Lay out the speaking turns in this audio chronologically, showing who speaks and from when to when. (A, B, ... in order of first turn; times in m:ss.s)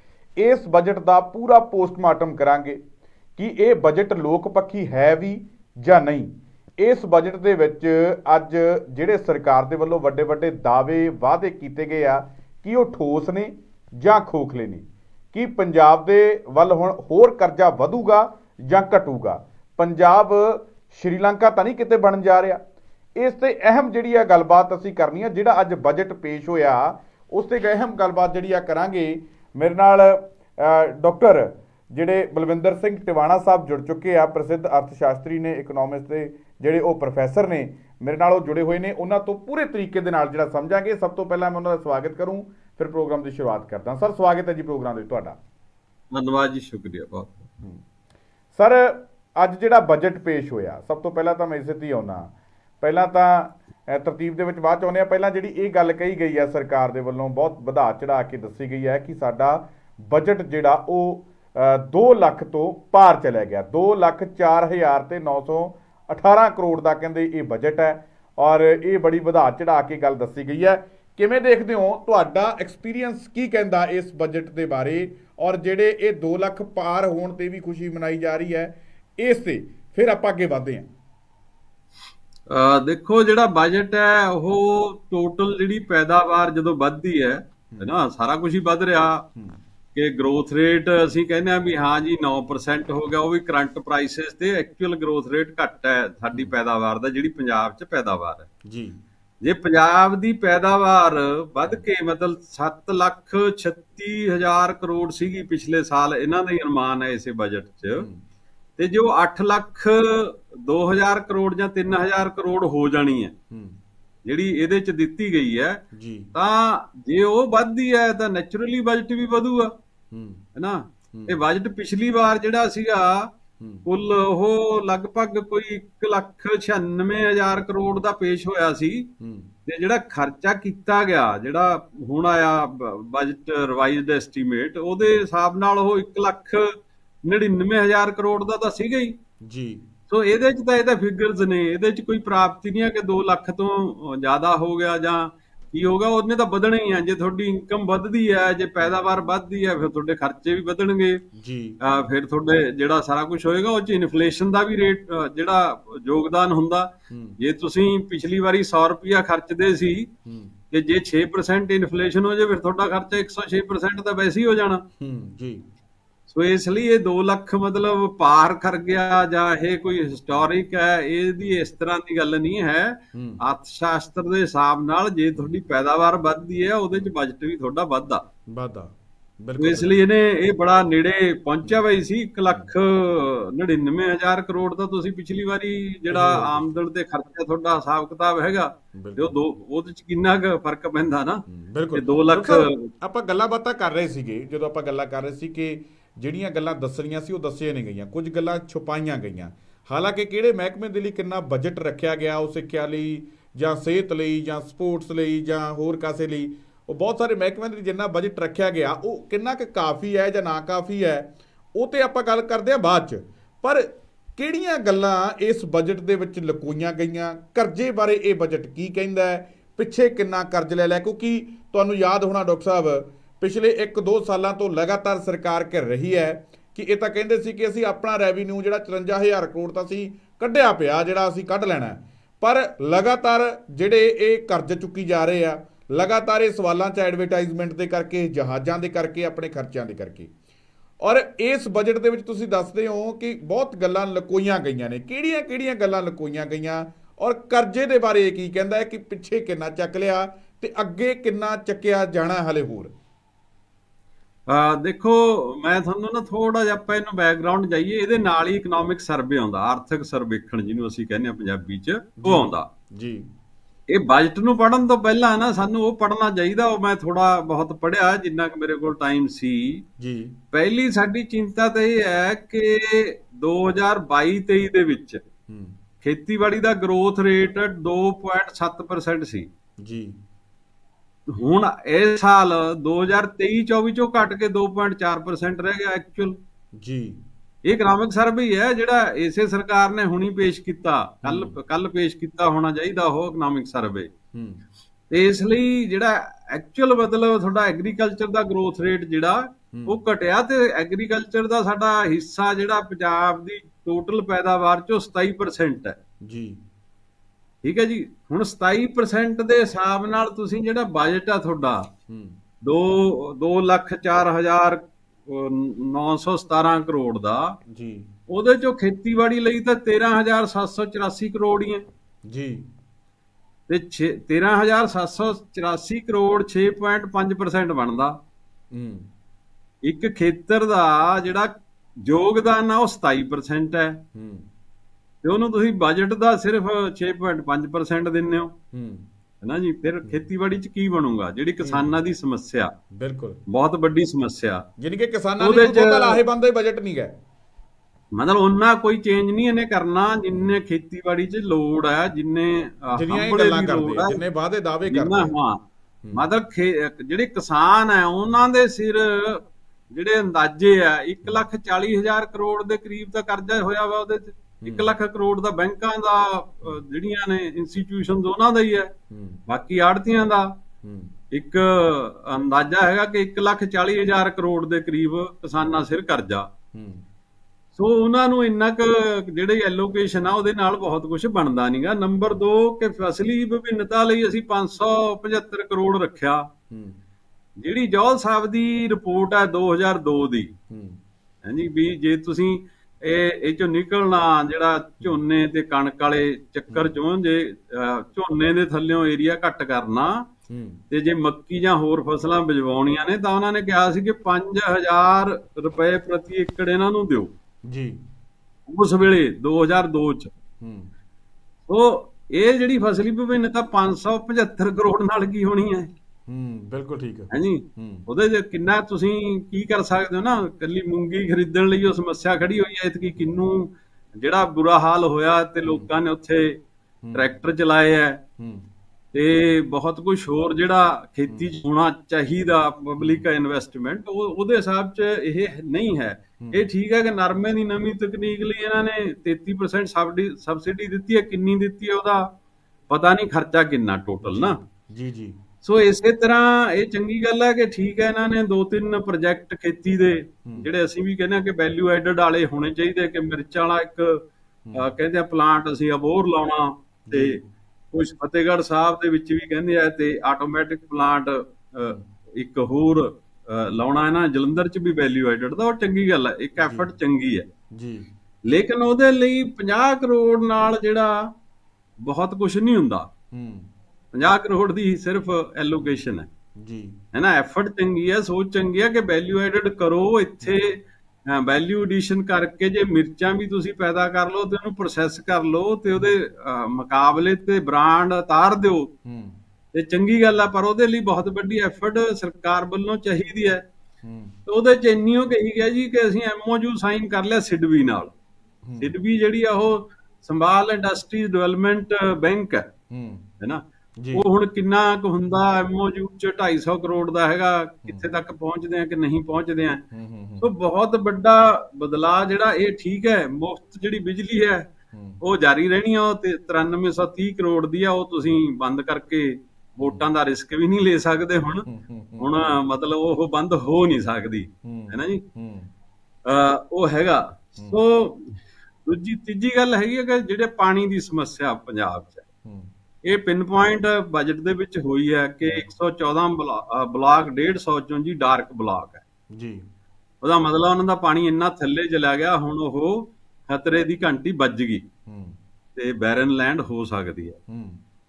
0:00.4-0:02.8 A
0:03.4-0:22.6 A
0:23.2-0:45.4 A
0:46.1-0:47.4 B
0:48.6-1:20.9 A
1:22.5-1:29.2 B
1:30.0-1:38.5 B
1:38.7-1:39.0 A
1:39.4-1:48.0 B
1:48.0-1:48.2 A
1:48.8-1:53.3 B
1:53.5-1:53.8 A
1:54.3-1:55.8 B
1:55.9-1:56.3 A
1:56.3-1:59.7 B
2:00.1-2:00.4 A
2:00.6-2:03.3 B
2:01.1-2:01.4 A
2:03.6-2:03.9 A
2:03.9-2:09.1 B
2:09.2-2:09.5 A
2:09.7-2:16.7 B
2:17.2-2:19.1 B
2:19.5-2:19.8 A
2:20.1-2:31.2 B
2:31.4-2:31.8 A
2:31.8-2:40.1 B
2:37.1-2:37.4 A
2:40.2-2:40.6 A
2:40.7-2:44.8 B
2:45.0-2:45.6 A
2:46.3-2:58.2 B
2:53.1-2:53.4 A
2:58.5-3:00.0 A
2:59.6-3:11.4 B
3:06.1-3:06.8 A
3:08.9-3:09.4 A
3:11.5-4:00.3 A
3:11.9-3:12.8 B
4:01.0-4:12.9 A
4:14.5-4:22.7 B
4:22.2-4:23.2 A
4:23.9-4:29.8 B
4:30.0-4:30.4 A
4:30.5-4:35.2 B
4:35.5-4:35.8 A
4:36.0-4:39.5 B
4:39.8-4:40.2 A
4:41.3-4:46.4 B
4:46.8-4:47.2 A
4:47.6-4:54.1 B
4:51.2-4:51.6 A
4:54.3-4:54.6 A
4:55.1-5:06.0 B
4:59.7-5:00.0 A
5:06.2-5:06.6 A
5:07.6-5:11.8 B
5:12.1-5:12.4 A
5:12.6-5:17.5 B
5:17.7-5:18.1 A
5:18.3-5:21.8 B
5:22.3-5:22.6 A
5:23.7-5:28.2 B
5:28.7-5:29.1 A
5:29.8-5:31.5 B
5:32.0-5:34.0 B
5:34.1-5:34.5 A
5:35.2-5:38.5 B
5:38.7-5:39.0 A
5:39.4-5:42.7 B
5:41.6-5:41.9 A
5:43.0-5:43.4 A
5:43.5-5:44.6 B
5:44.8-5:47.1 A
5:45.4-5:46.2 B
5:48.2-5:54.2 B
5:52.9-5:55.3 A
5:54.9-5:55.6 B
5:56.1-6:08.9 B
6:04.6-6:04.9 A
6:09.1-6:09.4 A
6:09.5-6:10.5 B
6:10.8-6:11.1 A
6:11.3-6:16.5 B
6:16.7-6:17.0 A
6:17.8-6:26.4 B
6:26.7-6:27.0 A
6:27.6-6:30.5 B
6:30.7-6:31.0 A
6:31.4-6:40.2 B
6:36.7-6:37.0 A
6:40.5-6:40.8 A
6:40.9-6:47.3 B
6:47.7-6:48.0 A
6:48.7-6:50.3 B
6:50.6-6:50.9 A
6:51.7-6:55.9 B
6:56.3-6:58.1 A
6:57.3-7:06.6 B
7:07.0-7:07.3 A
7:07.1-7:08.2 B
7:08.4-7:08.7 A
7:09.1-7:22.2 B
7:13.0-7:13.3 A
7:16.4-7:16.7 A
7:22.9-7:24.6 B
7:24.2-7:25.4 A
7:25.6-7:34.2 B
7:30.4-7:30.7 A
7:34.7-7:34.9 A
7:34.8-7:37.4 B
7:37.1-7:37.4 A
7:37.9-7:47.4 B
7:46.6-7:46.9 A
7:47.8-7:48.1 A
7:48.5-7:51.1 B
7:52.0-7:53.1 B
7:53.3-7:53.7 A
7:54.1-7:56.3 B
7:56.6-7:57.0 A
7:57.1-8:08.9 B
8:09.0-8:09.4 A
8:09.7-8:13.6 B
8:14.0-8:14.4 A
8:14.5-8:18.1 B
8:18.6-8:18.9 A
8:18.8-8:22.7 B
8:22.9-8:23.2 A
8:24.1-8:29.8 B
8:27.8-8:28.2 A
8:29.9-8:30.5 A
8:30.4-8:34.7 B
8:34.9-8:35.2 A
8:35.2-8:41.7 B
8:39.8-8:40.0 A
8:41.7-8:42.3 A
8:42.2-8:45.2 B
8:44.6-8:45.7 A
8:46.3-8:48.4 B
8:48.9-8:52.2 B
8:53.1-8:59.0 B
8:59.4-8:59.6 A
9:00.2-9:04.8 B
9:05.1-9:05.4 A
9:05.8-9:07.4 B
9:07.5-9:07.8 A